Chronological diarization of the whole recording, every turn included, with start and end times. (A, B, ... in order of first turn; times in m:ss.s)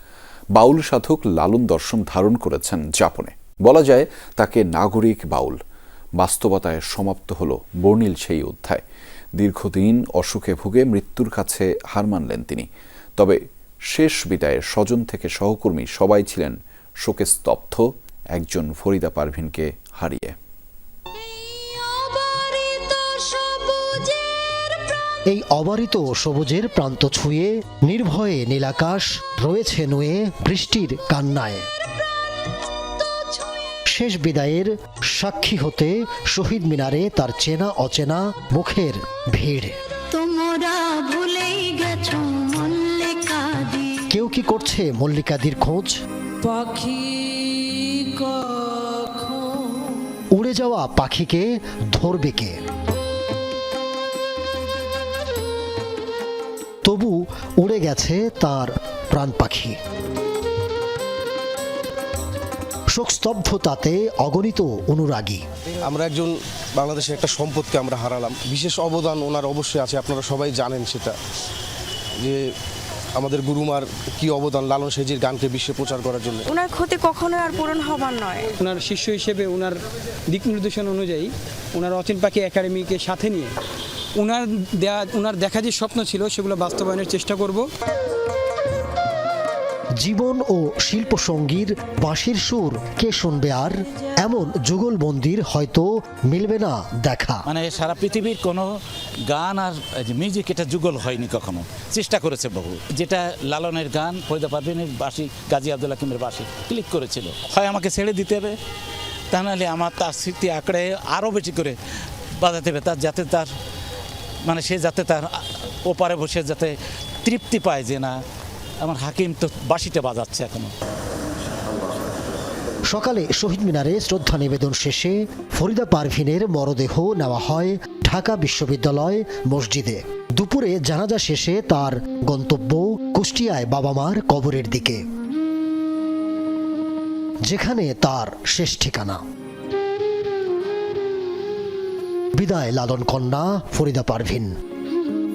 0:00.5-0:05.6 A
0:06.2-0:08.8 A
0:09.4-0:13.4 A
0:13.9-0:17.8 A
0:18.3-0:20.3 A
0:21.4-0:24.4 B
0:25.3-0:31.6 C
0:33.0-0:33.7 B
0:33.9-0:39.7 C
0:40.1-0:44.1 B
0:44.1-0:46.0 C
0:46.4-0:49.7 B
0:50.3-0:52.5 C
0:56.8-0:59.8 C
1:02.9-1:05.4 C
1:05.8-1:11.2 D
1:12.2-1:12.4 D
1:13.2-1:16.5 D
1:16.5-1:18.5 E
1:18.6-1:23.5 F
1:24.2-1:27.6 F
1:30.0-1:37.4 C
1:37.5-1:38.7 G
1:39.3-1:48.6 G
1:49.3-1:51.8 G
1:52.4-1:53.5 G
1:54.4-1:58.2 G
1:58.8-2:00.7 G
2:02.9-2:15.0 C
2:17.4-2:19.2 C
2:22.4-2:24.5 C